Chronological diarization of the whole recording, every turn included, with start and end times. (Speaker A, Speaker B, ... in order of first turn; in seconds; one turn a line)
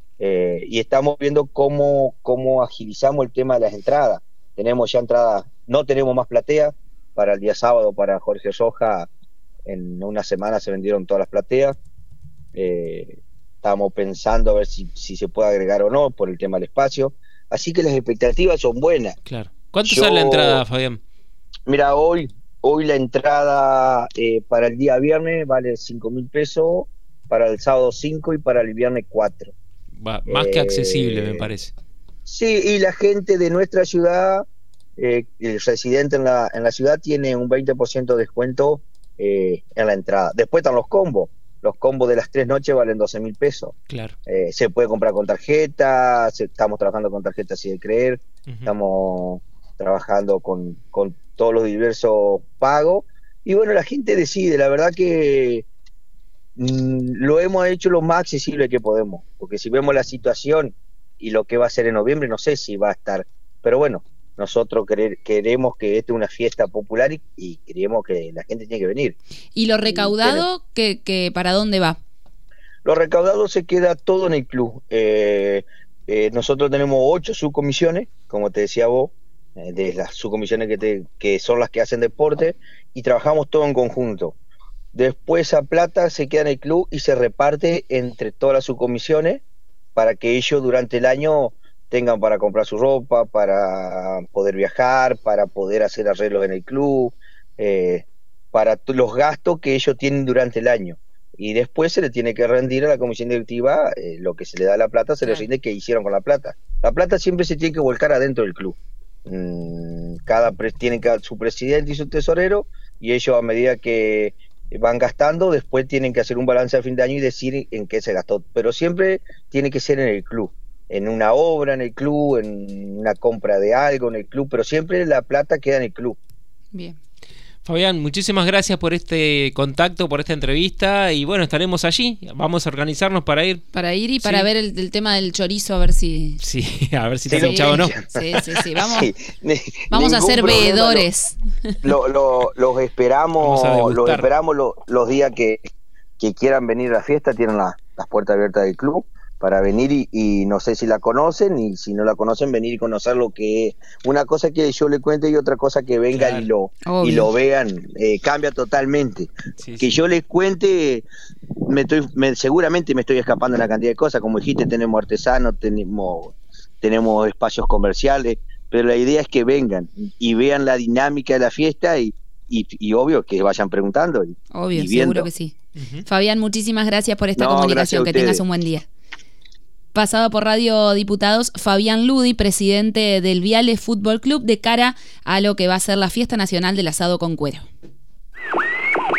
Speaker A: 0.2-9.1
Speaker A: 9.6-11.8
Speaker A: 12.5-19.2
Speaker B: 19.2-21.0
Speaker A: 19.9-20.6
Speaker A: 21.6-29.5
Speaker B: 29.9-31.7
Speaker A: 30.3-31.5
Speaker A: 32.2-34.5
Speaker A: 35.0-43.7
Speaker B: 43.9-44.1
Speaker A: 44.3-55.6
Speaker B: 48.5-48.7
Speaker A: 56.5-69.2
Speaker C: 69.5-72.0
Speaker A: 69.8-70.5
Speaker A: 72.8-84.3
Speaker A: 84.9-89.4
Speaker A: 90.0-126.2
Speaker C: 126.7-127.0
Speaker B: 127.6-133.6
Speaker C: 133.7-136.4
Speaker B: 134.2-134.5
Speaker B: 136.4-137.9
Speaker A: 137.2-138.1
Speaker C: 137.4-139.1
Speaker A: 138.7-141.1
Speaker C: 139.9-141.8
Speaker A: 141.8-145.6
Speaker B: 143.4-144.2
Speaker A: 146.2-161.1
Speaker B: 156.1-156.5
Speaker C: 156.8-157.3
Speaker B: 159.6-160.0
Speaker A: 161.6-175.3
Speaker C: 174.5-175.5
Speaker B: 175.8-176.0
Speaker C: 176.1-178.8
Speaker A: 177.3-178.4
Speaker C: 179.9-187.7